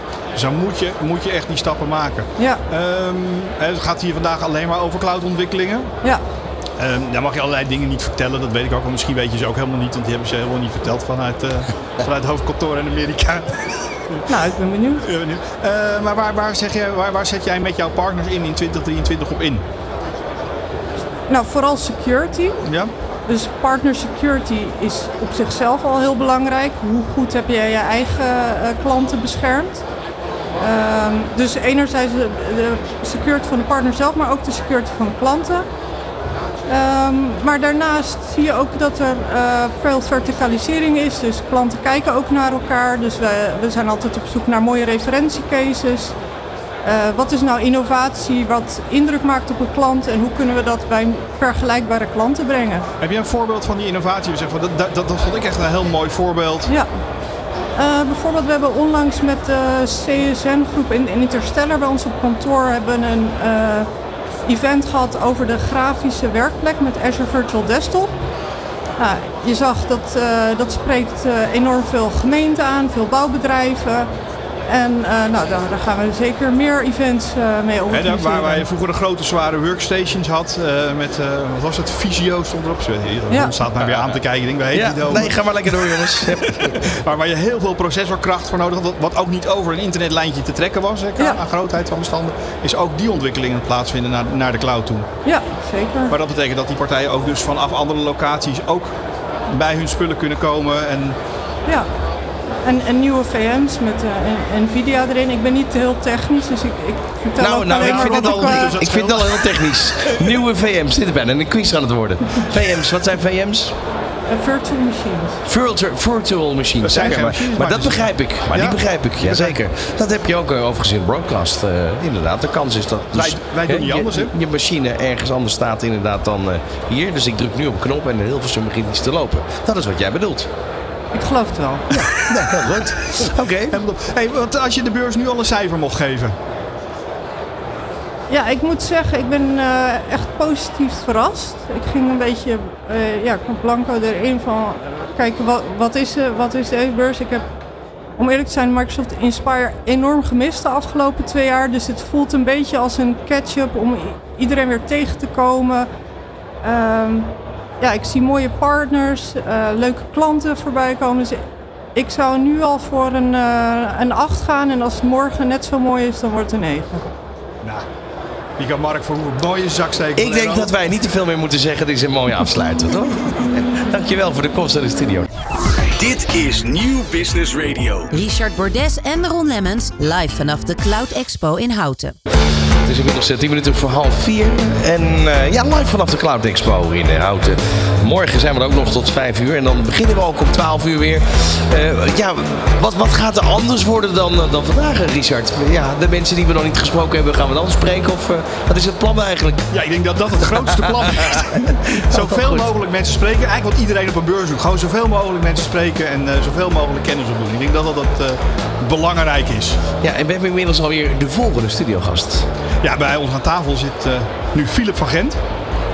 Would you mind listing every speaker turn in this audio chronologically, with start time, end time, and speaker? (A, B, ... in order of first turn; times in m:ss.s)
0:00.3-0:05.9 A
0:02.4-0:02.6 B
0:06.8-0:14.2 A
0:14.3-0:15.1 B
0:15.0-0:19.6 A
0:21.3-0:22.6 B
0:22.6-0:22.9 A
0:23.3-0:29.8 B
0:30.6-0:35.6 B
0:36.7-0:46.2 B
0:46.8-0:52.9 B
0:53.0-0:56.7 A
0:57.8-1:03.9 B
1:04.4-1:08.1 B
1:09.0-1:14.1 B
1:14.7-1:18.6 B
1:17.9-1:35.1 A
1:23.8-1:24.2 C
1:24.7-1:27.0 C
1:35.2-1:36.1 B
1:36.1-1:39.0 A
1:39.5-1:41.2 A
1:42.6-1:48.7 B
1:47.4-1:53.7 C
1:47.7-1:50.4 A
1:54.3-1:55.4 B
1:55.5-2:10.5 C
1:56.8-1:59.6 A
2:03.1-2:04.3 A
2:11.1-2:11.9 B
2:11.9-2:13.8 C
2:12.0-2:16.4 A
2:18.3-2:27.4 B
2:28.2-2:35.9 B
2:36.6-2:41.4 B
2:41.9-2:47.1 B
2:48.6-2:50.7 A
2:50.2-2:55.3 C
2:55.6-2:58.1 D
2:58.1-3:02.1 E
3:02.8-3:19.7 C
3:19.7-3:29.8 A
3:20.5-3:22.7 C
3:30.0-3:32.5 C
3:32.8-3:35.4 A